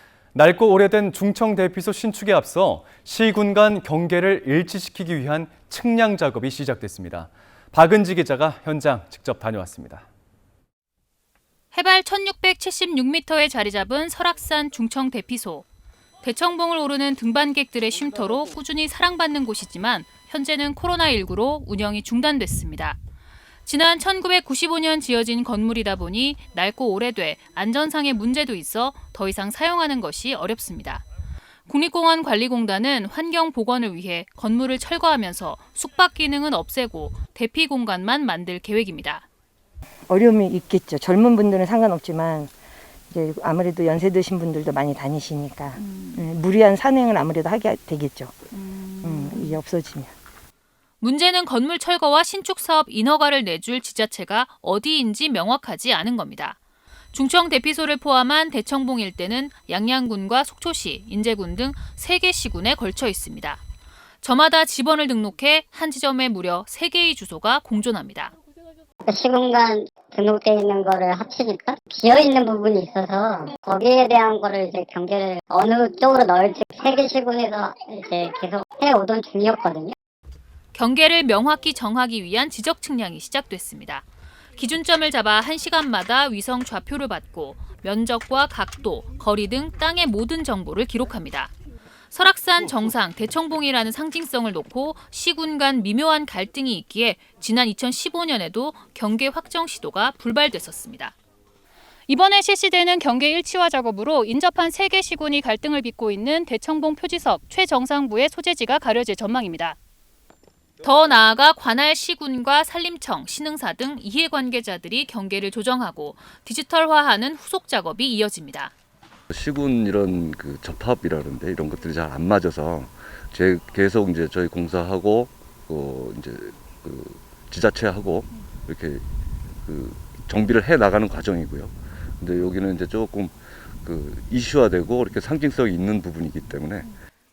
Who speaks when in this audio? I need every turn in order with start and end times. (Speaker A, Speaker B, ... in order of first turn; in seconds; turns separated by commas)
Speaker A: 0.3-10.1, Speaker B: 11.7-15.7, Speaker B: 16.2-23.0, Speaker B: 23.6-31.0, Speaker B: 31.7-39.2, Speaker C: 40.1-42.5, Speaker C: 43.1-48.4, Speaker B: 45.8-46.2, Speaker B: 48.5-49.6, Speaker C: 49.0-50.1, Speaker B: 51.0-56.6, Speaker B: 57.1-63.6, Speaker B: 64.2-68.3, Speaker D: 69.0-79.9, Speaker B: 80.7-91.5, Speaker B: 92.1-101.1, Speaker B: 102.1-109.8, Speaker B: 110.8-118.7, Speaker E: 119.3-129.0, Speaker E: 129.6-136.9